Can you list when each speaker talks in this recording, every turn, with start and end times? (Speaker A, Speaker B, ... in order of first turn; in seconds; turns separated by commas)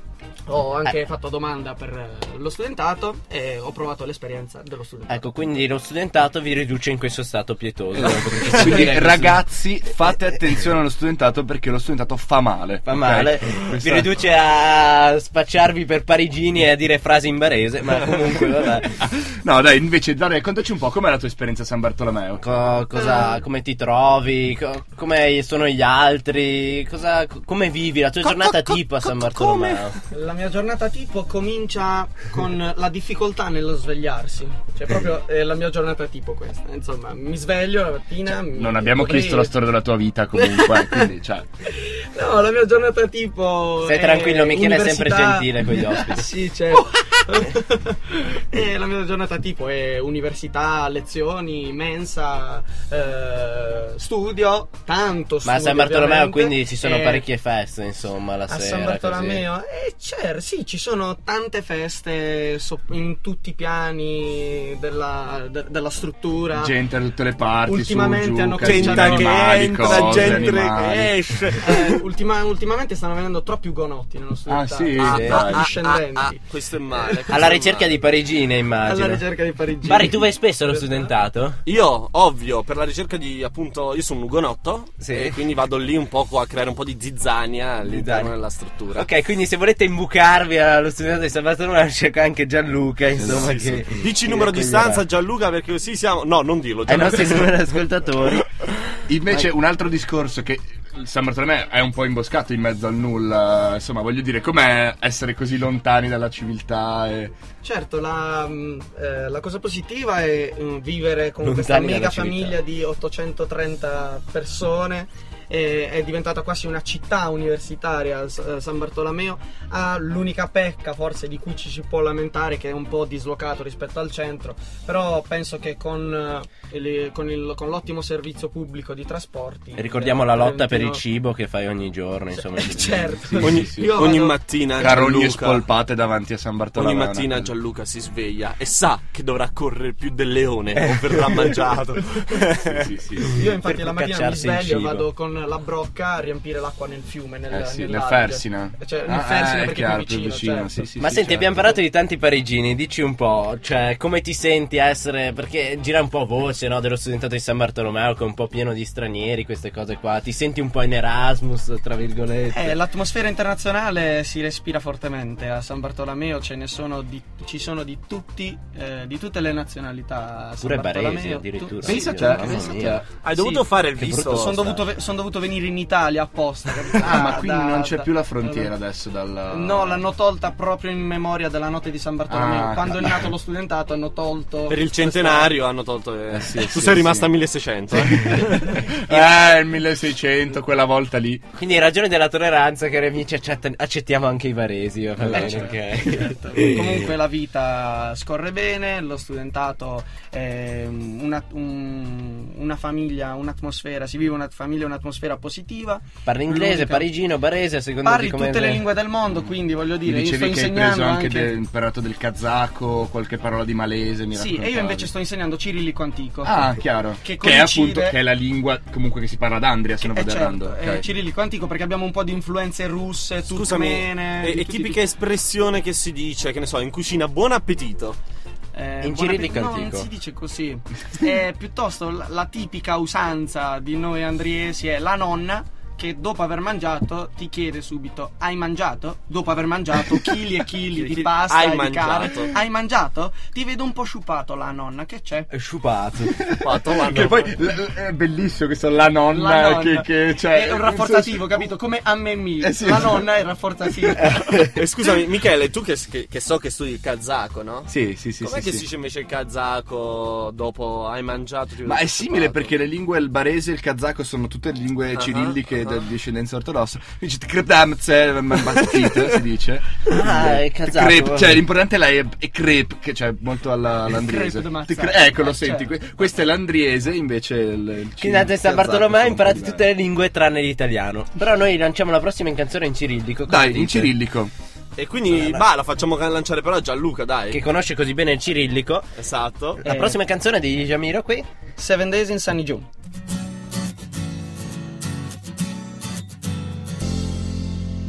Speaker A: 0.5-5.5, Speaker B: 5.1-9.4, Speaker C: 8.0-14.1, Speaker B: 12.8-19.0, Speaker C: 19.0-22.4, Speaker B: 22.4-29.9, Speaker A: 22.9-23.4, Speaker D: 28.2-29.9, Speaker A: 30.1-39.5, Speaker C: 38.5-41.5, Speaker A: 40.3-41.1, Speaker A: 41.6-57.3, Speaker B: 43.8-46.3, Speaker B: 55.4-59.5, Speaker A: 58.5-66.7, Speaker C: 66.5-71.8, Speaker A: 67.6-70.6, Speaker D: 68.6-72.0, Speaker A: 71.6-76.4, Speaker C: 74.5-75.7, Speaker D: 75.0-78.0, Speaker A: 76.9-77.4, Speaker B: 77.3-79.2, Speaker A: 78.8-81.1, Speaker B: 79.8-81.6, Speaker D: 81.7-89.1, Speaker B: 85.0-85.4, Speaker B: 87.8-88.3, Speaker B: 88.9-95.0, Speaker C: 93.2-93.8, Speaker D: 93.9-97.6, Speaker B: 96.9-98.5, Speaker C: 99.1-107.4, Speaker A: 107.6-131.0, Speaker B: 111.4-112.6, Speaker B: 129.8-133.4, Speaker A: 132.3-135.0, Speaker C: 133.2-134.2, Speaker D: 133.4-135.6, Speaker C: 134.8-137.5, Speaker D: 136.8-142.9, Speaker B: 140.8-141.6, Speaker C: 142.6-143.5, Speaker A: 143.2-150.9, Speaker B: 143.6-145.1, Speaker C: 147.5-151.8, Speaker B: 151.0-162.8, Speaker A: 162.5-172.6, Speaker B: 170.6-173.0, Speaker C: 171.8-173.1, Speaker D: 173.1-174.8, Speaker A: 173.3-178.7, Speaker B: 174.0-174.5, Speaker C: 177.0-180.0, Speaker A: 179.5-185.6, Speaker C: 182.3-183.3, Speaker D: 184.7-188.9, Speaker C: 186.3-187.3, Speaker C: 187.9-191.4, Speaker B: 191.5-197.0, Speaker C: 195.2-195.7, Speaker A: 195.3-207.1, Speaker B: 206.2-208.8, Speaker A: 208.0-211.5, Speaker C: 210.0-215.1, Speaker A: 214.3-216.7, Speaker C: 216.4-221.1, Speaker A: 217.2-218.2, Speaker A: 220.0-225.0, Speaker D: 223.4-228.2, Speaker A: 228.7-245.5, Speaker B: 229.0-230.1, Speaker D: 240.9-242.5, Speaker B: 245.5-246.4, Speaker C: 246.3-251.7, Speaker D: 246.6-247.6, Speaker A: 249.3-254.7, Speaker C: 252.6-253.3, Speaker C: 254.0-254.6, Speaker D: 254.7-262.7, Speaker C: 257.9-258.8, Speaker C: 261.8-279.9, Speaker D: 265.1-265.6, Speaker D: 268.7-269.3, Speaker B: 270.1-271.6, Speaker A: 274.1-276.0, Speaker B: 278.2-284.1, Speaker C: 283.5-284.5, Speaker D: 285.0-287.6, Speaker B: 285.3-285.6, Speaker B: 287.5-289.1, Speaker D: 289.2-289.8, Speaker B: 289.8-291.5, Speaker A: 289.8-290.2, Speaker A: 291.8-292.9